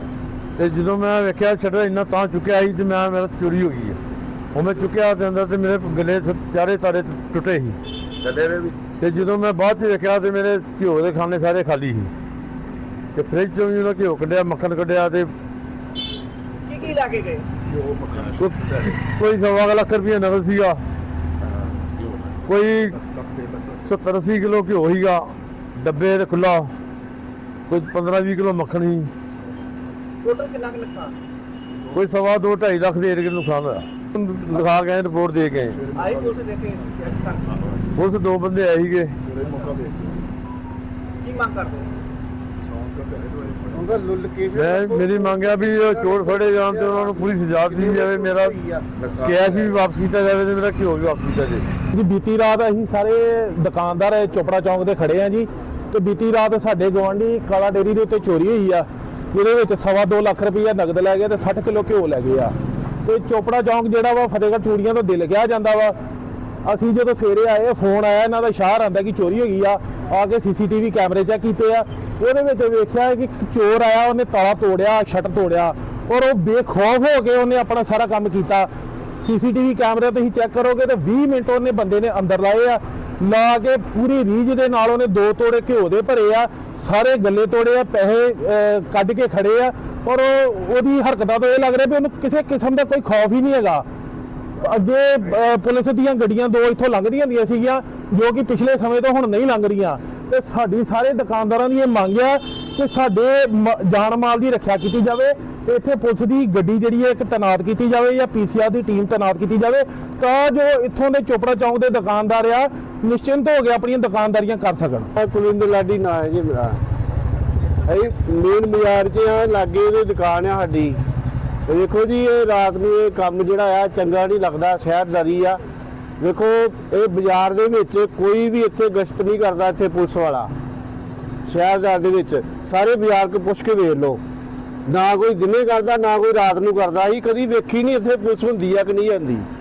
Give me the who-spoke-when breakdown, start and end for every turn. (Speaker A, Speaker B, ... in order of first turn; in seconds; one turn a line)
Speaker A: 0.6-4.0
Speaker A: 4.5-7.8
Speaker A: 9.0-12.1
Speaker A: 13.2-15.3
Speaker B: 16.7-17.5
Speaker C: 17.7-19.0
Speaker A: 18.4-20.8
Speaker C: 21.5-23.9
Speaker A: 22.4-23.0
Speaker A: 23.8-26.7
Speaker A: 27.7-29.1
Speaker B: 30.2-31.1
Speaker A: 31.9-35.9
Speaker C: 35.7-36.9
Speaker B: 36.0-37.5
Speaker A: 38.0-39.2
Speaker C: 39.3-40.2
Speaker B: 41.2-41.9
Speaker C: 42.6-44.0
Speaker D: 43.7-48.9
Speaker A: 44.5-51.7
Speaker E: 51.9-62.5
Speaker E: 63.0-66.0
Speaker E: 66.7-78.7
Speaker E: 79.2-93.8
Speaker E: 94.6-115.1
Speaker D: 115.2-116.8
Speaker D: 117.9-121.0
Speaker D: 121.7-125.6
Speaker D: 126.2-130.5
Speaker D: 131.5-134.2
Speaker D: 134.9-139.5